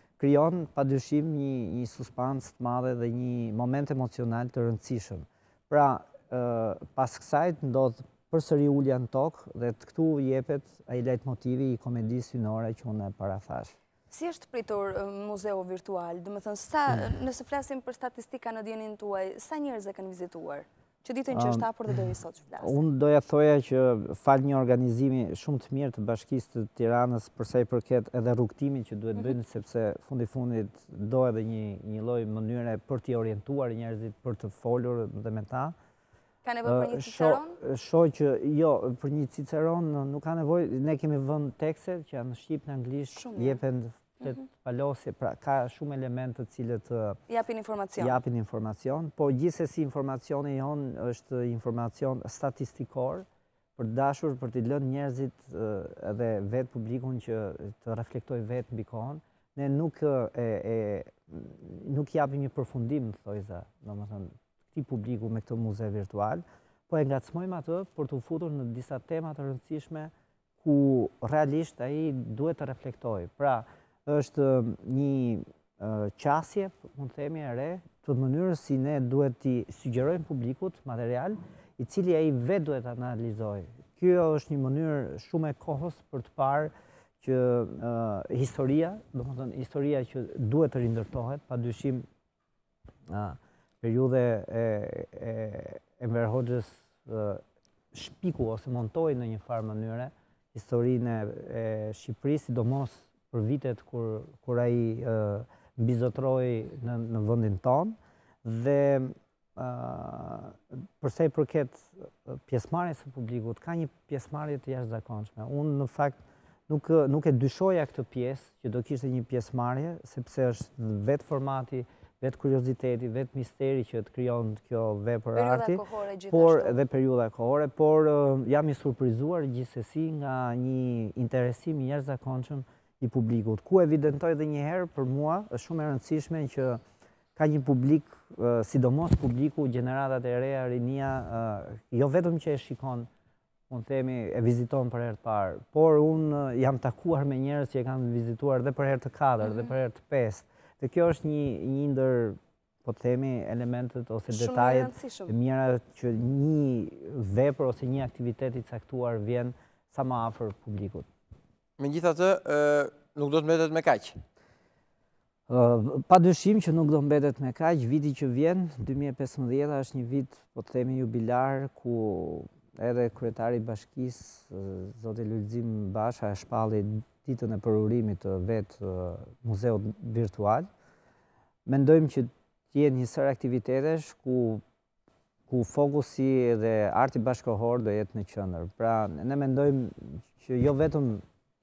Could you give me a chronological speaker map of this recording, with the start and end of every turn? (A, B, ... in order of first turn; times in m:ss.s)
0:00.2-0:13.7 A
0:14.1-0:22.8 B
0:21.3-0:21.7 A
0:22.6-0:35.7 A
0:36.4-0:37.6 B
0:36.6-0:47.2 A
0:43.1-0:43.6 B
0:47.3-0:48.2 B
0:48.0-0:53.2 A
0:53.8-1:10.1 A
1:10.6-1:32.0 A
1:33.1-1:37.4 A
1:37.9-2:16.8 A
2:05.3-2:06.8 B
2:17.4-2:23.1 A
2:23.7-2:41.0 A
2:34.3-2:35.3 B
2:41.8-2:44.2 C
2:45.5-3:00.7 A
3:01.6-3:04.6 A
3:05.5-3:11.2 A